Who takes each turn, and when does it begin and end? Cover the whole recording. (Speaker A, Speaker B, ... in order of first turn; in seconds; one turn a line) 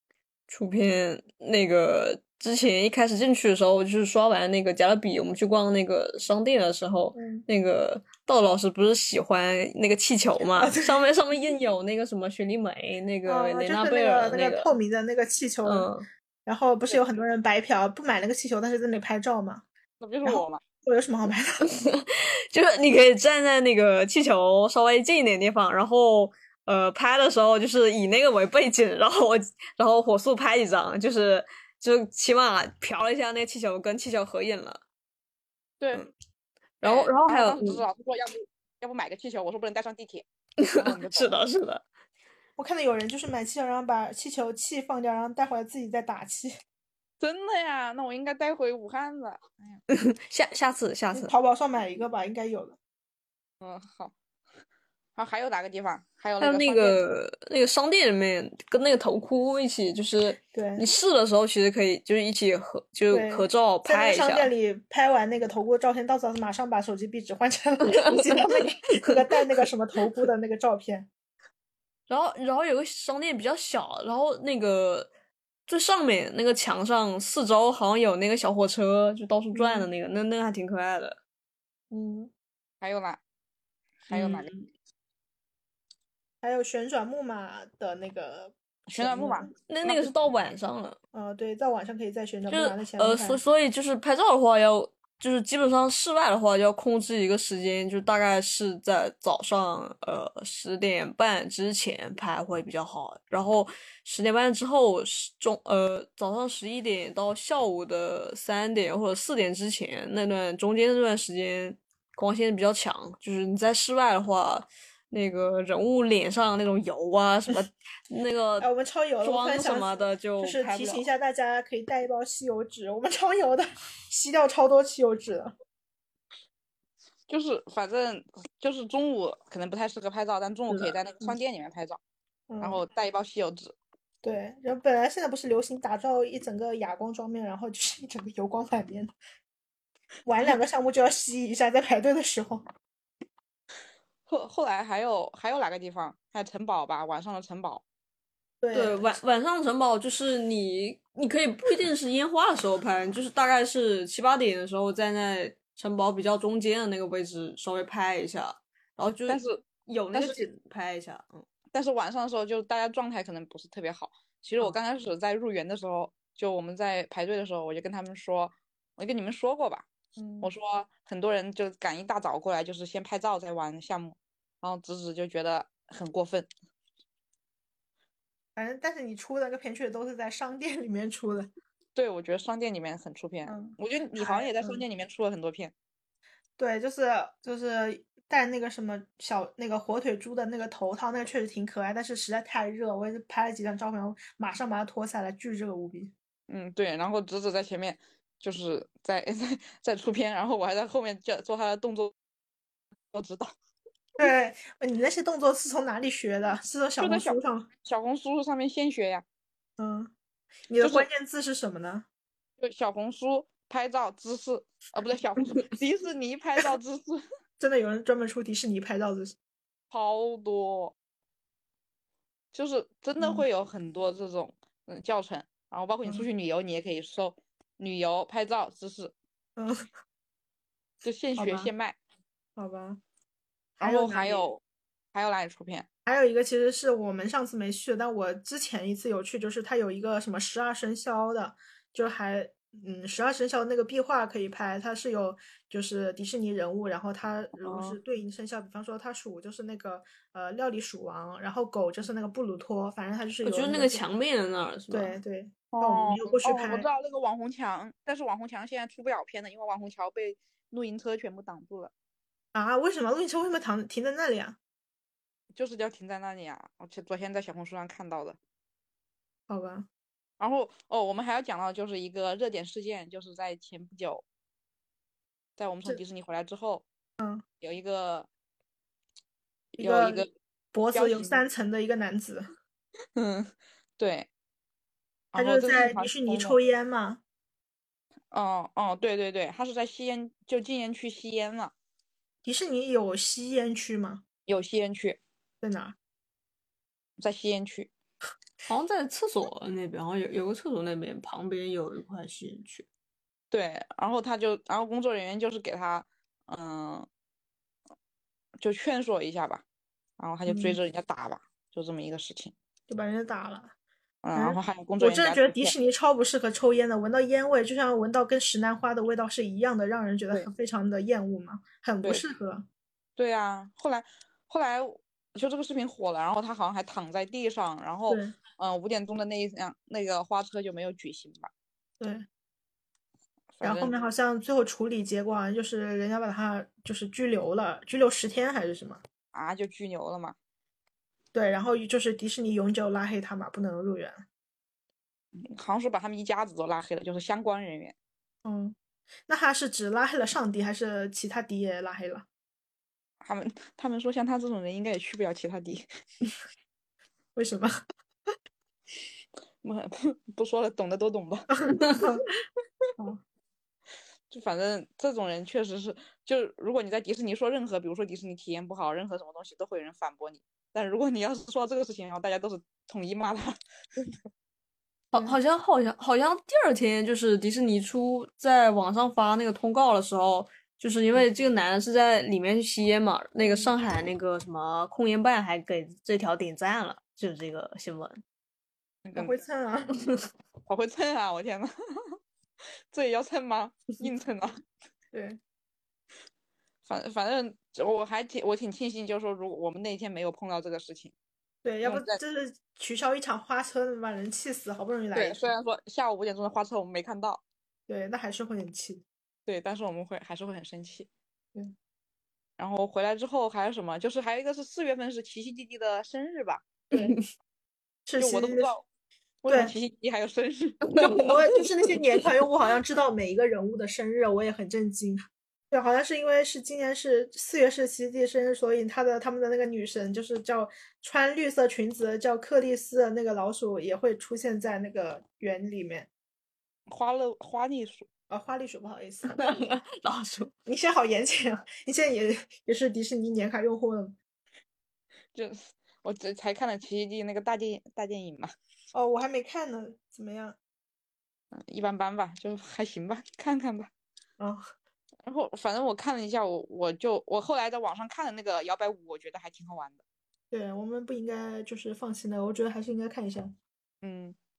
Speaker A: 0.5-14.7
Speaker B: 7.2-7.5
Speaker B: 10.4-10.9
Speaker B: 13.3-15.9
Speaker A: 15.7-16.1
Speaker B: 16.4-19.6
Speaker C: 20.0-20.6
Speaker B: 20.2-21.6
Speaker A: 21.6-34.8
Speaker C: 35.8-36.1
Speaker A: 36.8-37.9
Speaker C: 36.8-41.4
Speaker A: 40.6-41.8
Speaker B: 42.6-46.5
Speaker C: 47.2-49.8
Speaker A: 49.9-51.3
Speaker B: 51.1-52.8
Speaker C: 53.6-54.1
Speaker C: 55.1-57.0
Speaker A: 56.4-64.5
Speaker B: 60.5-60.9
Speaker B: 63.1-71.1
Speaker A: 67.9-68.5
Speaker A: 72.1-75.1
Speaker A: 75.7-81.2
Speaker B: 79.5-79.9
Speaker B: 81.9-82.3
Speaker C: 82.8-83.2
Speaker C: 84.0-84.5
Speaker A: 84.1-84.7
Speaker B: 86.4-89.5
Speaker C: 88.9-90.0
Speaker A: 89.7-91.0
Speaker B: 91.1-93.4
Speaker A: 92.5-118.7
Speaker B: 118.6-125.5
Speaker A: 119.2-121.1
Speaker C: 127.3-132.0
Speaker B: 132.5-132.8
Speaker C: 132.6-133.8
Speaker B: 134.2-139.1
Speaker B: 140.2-142.6
Speaker C: 144.3-147.8
Speaker B: 148.6-149.2
Speaker A: 148.7-161.4
Speaker C: 159.3-160.4
Speaker C: 161.7-169.9
Speaker B: 170.2-170.5
Speaker C: 170.4-176.5
Speaker B: 178.6-181.5
Speaker C: 181.9-185.7
Speaker B: 183.5-184.8
Speaker B: 186.6-196.1
Speaker C: 196.5-202.1
Speaker C: 203.1-203.5
Speaker B: 204.2-207.7
Speaker C: 207.0-209.2
Speaker B: 209.8-210.1
Speaker B: 210.7-212.1
Speaker C: 210.8-211.1
Speaker C: 212.6-217.2
Speaker B: 217.6-219.4
Speaker C: 219.9-220.9
Speaker C: 222.5-229.1
Speaker B: 223.2-223.4
Speaker B: 229.6-229.9
Speaker C: 231.0-232.0
Speaker B: 231.4-231.7
Speaker B: 232.6-233.0
Speaker B: 233.8-234.4
Speaker C: 233.8-234.6
Speaker C: 235.1-235.9
Speaker B: 236.1-254.0
Speaker A: 253.4-255.2
Speaker B: 254.9-256.9
Speaker C: 255.7-261.9
Speaker B: 262.5-264.6
Speaker C: 265.5-268.4
Speaker B: 269.5-269.9
Speaker C: 270.4-274.2
Speaker C: 275.6-276.9
Speaker B: 277.2-277.4
Speaker C: 277.6-278.3
Speaker B: 279.8-282.5
Speaker C: 279.8-280.3
Speaker C: 280.9-281.4
Speaker C: 283.1-284.3
Speaker C: 285.3-286.6
Speaker B: 285.4-287.2
Speaker C: 288.3-291.7
Speaker B: 292.4-294.2
Speaker C: 294.5-295.2
Speaker B: 295.6-295.9
Speaker C: 297.2-297.9
Speaker A: 298.7-302.9
Speaker C: 303.5-307.1
Speaker C: 308.6-309.6
Speaker C: 310.2-312.5
Speaker B: 310.5-310.8
Speaker B: 312.9-313.7
Speaker C: 314.2-315.7
Speaker B: 314.4-322.6
Speaker C: 323.2-331.5
Speaker B: 328.1-328.3
Speaker B: 332.0-332.3
Speaker C: 333.6-333.9
Speaker B: 333.6-339.0
Speaker C: 339.3-340.4
Speaker B: 341.3-344.2
Speaker C: 345.4-347.9
Speaker B: 348.4-348.8
Speaker B: 349.3-352.3
Speaker C: 353.2-355.9
Speaker B: 357.4-357.7
Speaker C: 359.6-362.0
Speaker B: 361.8-362.2
Speaker C: 364.3-373.6
Speaker A: 375.1-388.2
Speaker B: 383.4-383.7
Speaker C: 389.1-389.4
Speaker B: 389.1-389.9
Speaker C: 390.7-391.7
Speaker C: 392.9-394.5
Speaker B: 395.1-395.4
Speaker C: 396.9-401.1
Speaker B: 401.6-405.5
Speaker C: 401.8-402.2
Speaker C: 405.1-407.4
Speaker B: 407.9-409.1
Speaker C: 409.4-411.1
Speaker C: 412.6-416.7
Speaker B: 418.1-418.7
Speaker C: 418.2-418.9
Speaker C: 419.4-421.3
Speaker B: 419.5-419.7
Speaker B: 421.0-436.1
Speaker C: 436.9-438.1
Speaker B: 438.3-439.5
Speaker A: 439.3-440.5
Speaker B: 440.6-444.1
Speaker C: 445.3-448.5
Speaker B: 448.9-450.6
Speaker C: 451.5-453.9
Speaker C: 455.2-460.0
Speaker B: 460.5-463.6
Speaker C: 464.0-464.4